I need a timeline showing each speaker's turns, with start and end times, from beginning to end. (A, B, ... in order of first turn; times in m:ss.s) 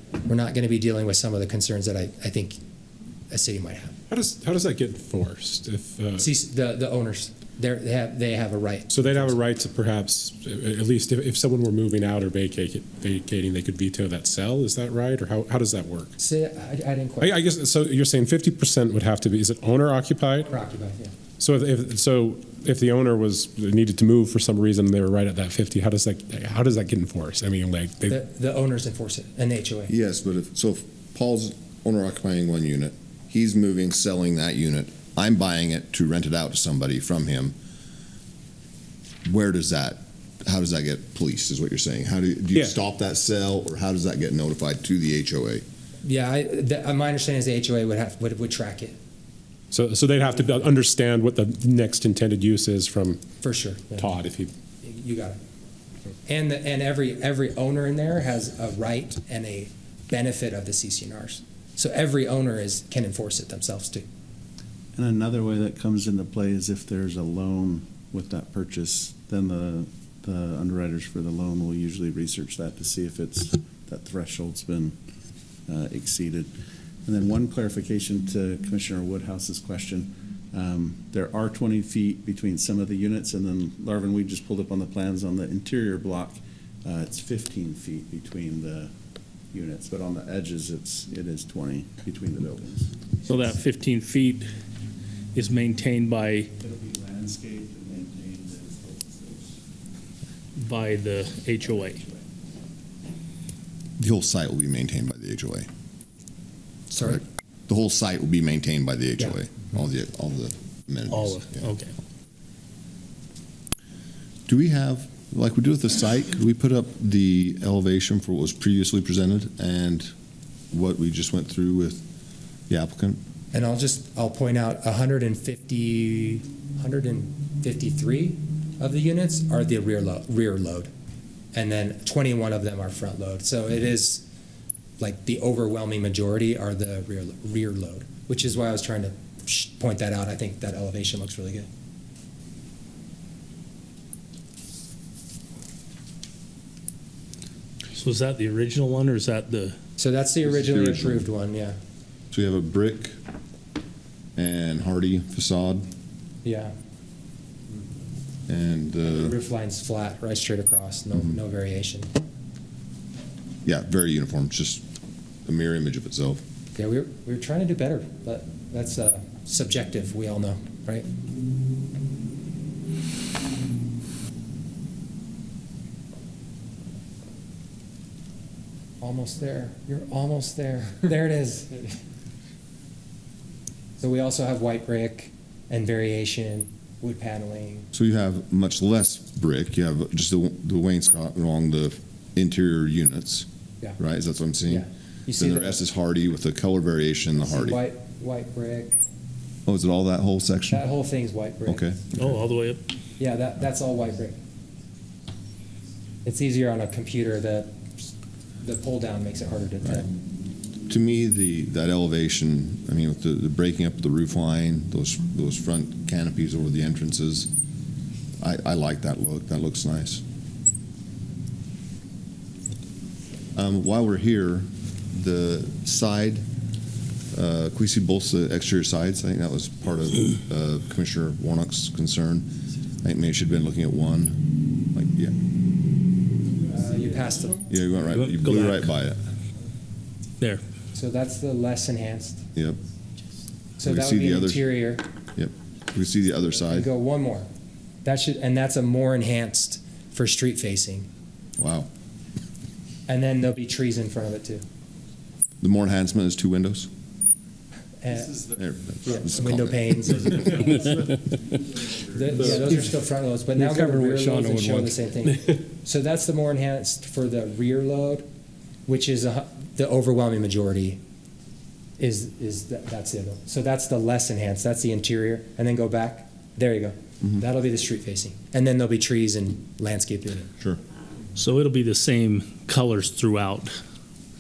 0:00.2-0:02.6 A
0:03.3-0:04.0 A
0:04.1-0:06.3 B
0:06.2-0:09.4 A
0:08.9-0:16.1 B
0:16.2-0:17.4 A
0:17.2-0:20.5 B
0:20.4-0:21.1 A
0:21.4-0:28.2 B
0:28.1-0:29.9 A
0:29.9-0:37.5 C
0:39.2-0:45.6 C
0:46.0-0:49.0 A
0:49.7-0:53.2 B
0:53.4-0:54.1 A
0:54.0-0:54.5 B
0:54.8-0:55.4 A
0:56.3-1:04.1 A
1:05.0-1:15.0 D
1:15.7-1:16.5 D
1:17.0-1:28.9 D
1:29.5-1:33.0 D
1:33.2-1:34.5 E
1:35.3-1:36.5 E
1:36.6-1:39.6 D
1:40.6-1:42.0 E
1:41.8-1:42.2 D
1:44.0-1:45.7 C
1:46.9-1:47.2 A
1:47.0-1:51.7 C
1:51.1-1:51.9 E
1:54.5-2:00.1 C
2:00.7-2:02.0 C
2:02.7-2:03.2 C
2:03.5-2:10.9 A
2:11.5-2:14.3 A
2:15.0-2:21.7 A
2:28.0-2:29.8 E
2:30.0-2:31.8 A
2:30.4-2:31.3 C
2:32.3-2:33.2 C
2:34.4-2:35.9 C
2:36.4-2:36.7 A
2:38.5-2:39.3 C
2:39.0-2:42.1 A
2:43.6-2:44.8 C
2:45.5-2:46.4 C
2:46.8-2:51.1 A
2:59.0-3:02.0 A
3:04.0-3:07.9 A
3:07.9-3:13.5 C
3:14.0-3:17.8 C
3:14.6-3:15.8 A
3:17.4-3:19.0 A
3:19.7-3:20.8 C
3:20.7-3:22.0 A
3:21.7-3:22.2 C
3:22.2-3:22.8 E
3:23.2-3:24.4 A
3:26.2-3:27.7 A
3:28.6-3:30.1 A
3:30.9-3:37.5 C
3:38.4-3:40.2 C
3:43.6-3:46.4 C
3:47.3-3:52.5 C
3:53.0-3:54.4 C
3:54.9-3:55.4 C
3:56.7-3:57.7 A
3:57.7-3:59.2 C
3:58.1-3:58.9 E
4:01.0-4:02.4 A
4:03.8-4:05.1 A
4:03.8-4:04.7 C
4:05.4-4:06.9 C
4:06.6-4:07.5 A
4:08.0-4:11.1 A
4:11.6-4:11.9 C
4:13.1-4:14.6 A
4:15.6-4:16.9 C
4:18.0-4:18.4 A
4:18.1-4:19.6 D
4:18.6-4:20.0 C
4:19.0-4:20.9 A
4:20.1-4:22.8 D
4:22.1-4:28.3 A
4:22.4-4:22.8 B
4:23.6-4:24.9 E
4:28.9-4:31.0 A
4:32.0-4:40.5 A
4:41.4-4:43.8 E